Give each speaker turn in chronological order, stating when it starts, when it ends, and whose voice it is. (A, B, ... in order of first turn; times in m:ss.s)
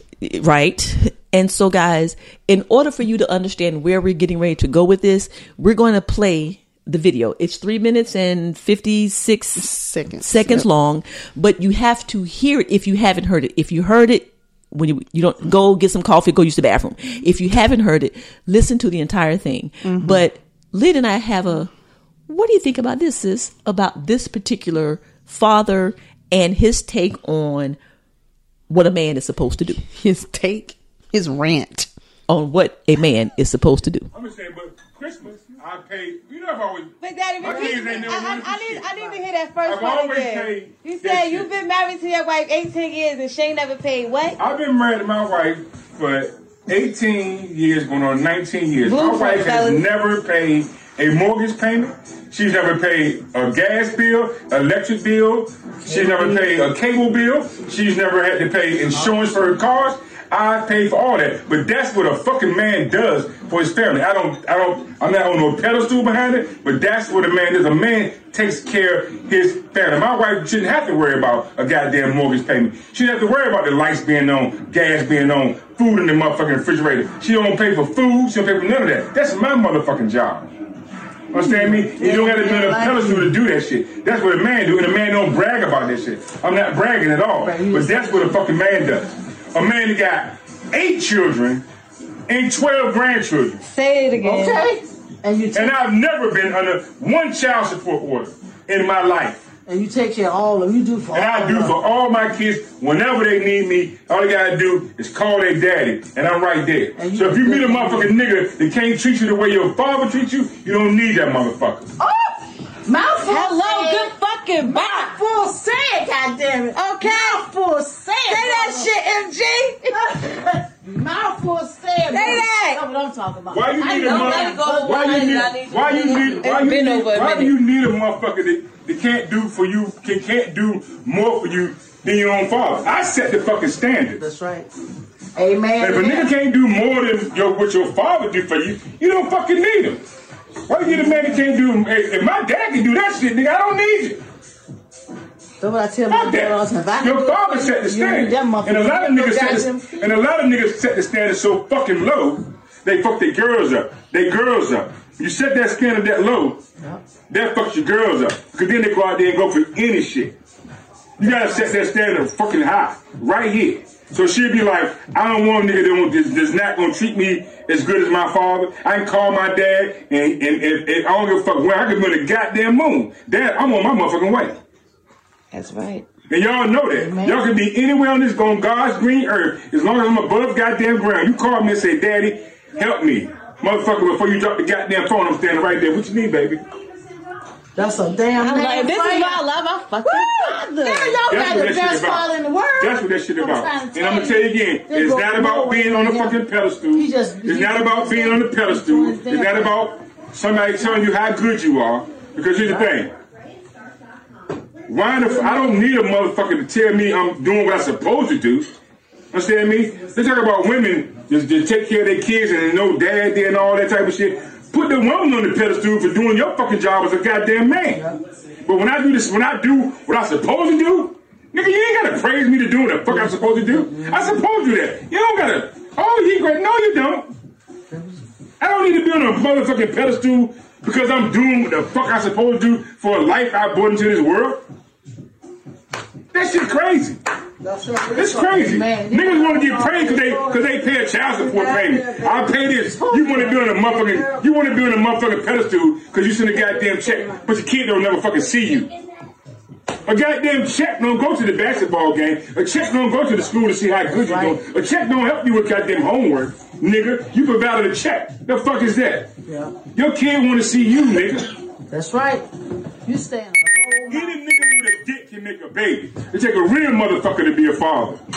0:00.2-0:09.7 A
0:09.6-0:10.7 B
0:10.2-0:21.7 A
0:19.8-0:20.2 B
0:22.3-0:27.8 A
0:28.7-0:29.8 A
0:29.8-0:31.9 B
0:32.3-0:34.1 A
0:34.1-0:38.9 C
0:37.0-0:44.4 D
0:37.5-0:38.3 E
0:39.7-0:41.5 C
0:44.4-1:20.5 C
0:48.8-0:49.8 D
0:55.9-0:56.6 E
1:21.3-1:31.6 C
1:21.4-1:23.3 E
1:27.4-1:28.4 E
1:32.3-1:33.6 C
1:33.6-1:34.7 D
1:34.2-1:35.8 E
1:35.5-1:39.5 C
1:39.7-1:41.7 E
1:41.1-1:51.9 C
1:47.0-1:48.1 E
1:52.8-1:58.9 E
1:53.2-1:55.2 D
1:56.8-1:57.4 D
1:58.3-2:00.0 D
1:59.9-2:06.6 E
2:02.1-2:02.8 D
2:03.5-2:14.2 C
2:03.8-2:07.6 D
2:04.8-2:05.6 A
2:14.2-2:14.7 E
2:15.4-2:16.3 E
2:15.8-2:20.0 C
2:20.7-2:24.2 C
2:20.8-2:21.4 E
2:25.6-2:30.1 E
2:26.1-2:36.6 C
2:37.3-2:40.3 C
2:41.2-2:54.6 C
2:41.2-2:41.7 E
2:55.5-2:56.1 D
2:56.3-3:06.6 C
2:57.0-2:57.4 E
3:07.8-3:09.4 E
3:08.4-3:11.2 D
3:10.1-3:16.4 E
3:11.3-3:12.3 C
3:12.8-3:23.1 C
3:16.9-3:19.8 E
3:24.9-3:28.7 C
3:29.3-3:38.0 C
3:38.6-3:47.3 C
3:43.1-3:44.3 E
3:48.6-3:54.6 C
3:56.3-3:57.2 C
3:57.6-4:04.4 E
3:58.1-4:08.9 C
4:10.0-4:19.3 C
4:14.2-4:14.6 E
4:19.5-4:19.8 E
4:19.9-4:21.5 C
4:21.9-4:22.4 E
4:23.1-4:24.4 E
4:24.1-4:28.2 C